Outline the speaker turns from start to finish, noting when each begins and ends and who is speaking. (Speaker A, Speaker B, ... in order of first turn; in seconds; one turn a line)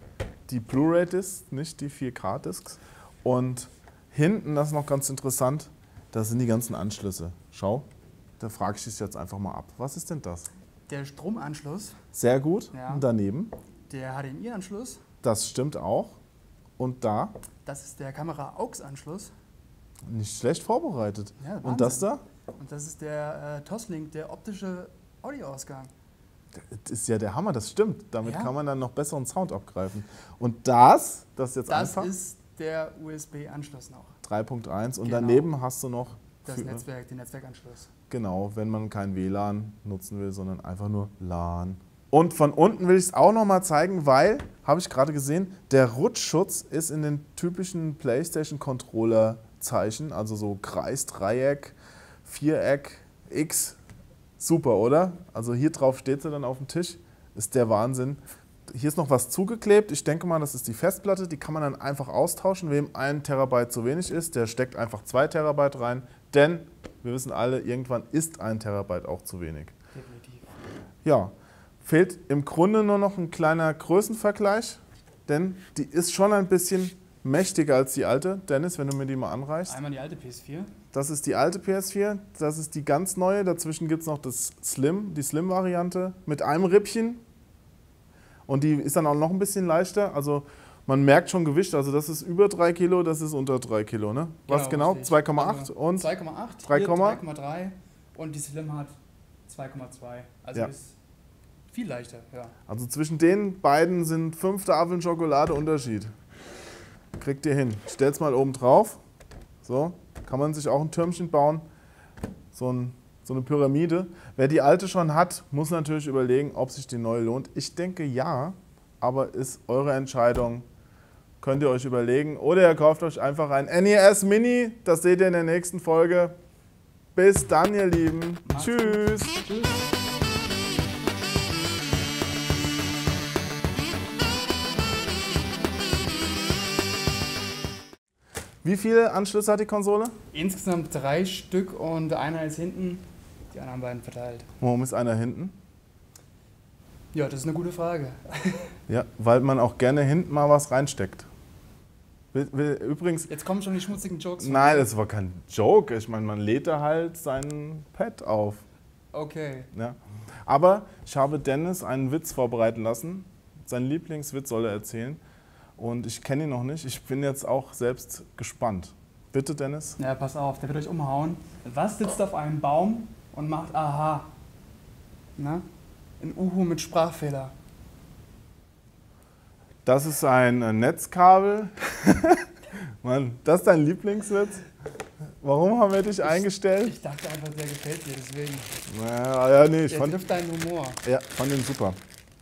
Speaker A: 0.5-7.8
Speaker A: 8.4-10.5
Speaker B: 10.9-12.0
Speaker A: 12.1-13.5
Speaker B: 12.7-13.0
Speaker B: 13.9-15.0
Speaker A: 15.2-16.2
Speaker A: 16.8-17.3
Speaker B: 17.6-19.3
Speaker A: 20.1-22.2
Speaker B: 21.4-25.9
Speaker A: 26.5-32.1
Speaker B: 28.2-28.5
Speaker B: 31.7-34.1
Speaker A: 34.2-36.8
Speaker B: 35.0-35.5
Speaker B: 36.4-37.9
Speaker A: 38.1-53.8
Speaker A: 54.4-69.7
Speaker B: 69.9-70.5
Speaker A: 71.0-79.8
Speaker B: 79.7-80.7
Speaker A: 80.9-87.2
Speaker A: 88.5-96.1
Speaker B: 94.5-98.9
Speaker A: 96.6-97.2
Speaker B: 99.5-101.0
Speaker B: 101.7-102.5
Speaker A: 102.7-106.1
Speaker A: 107.2-109.0
Speaker A: 109.6-111.6
Speaker A: 112.5-120.6
Speaker A: 121.4-126.3
Speaker A: 127.1-129.3
Speaker B: 128.4-129.9
Speaker A: 138.6-140.1
Speaker B: 140.3-144.5
Speaker A: 144.6-145.5
Speaker B: 147.1-148.7
Speaker A: 148.9-151.3
Speaker A: 152.3-153.3
Speaker B: 153.3-154.9
Speaker A: 154.4-158.6
Speaker B: 159.1-159.7
Speaker A: 159.7-165.2
Speaker A: 165.8-170.0
Speaker B: 170.0-174.3
Speaker B: 175.4-175.6
Speaker B: 176.2-177.5
Speaker A: 179.8-182.5
Speaker A: 183.0-184.6
Speaker A: 185.4-186.9
Speaker B: 186.2-188.7
Speaker A: 188.9-190.2
Speaker B: 189.9-191.0
Speaker A: 191.0-192.0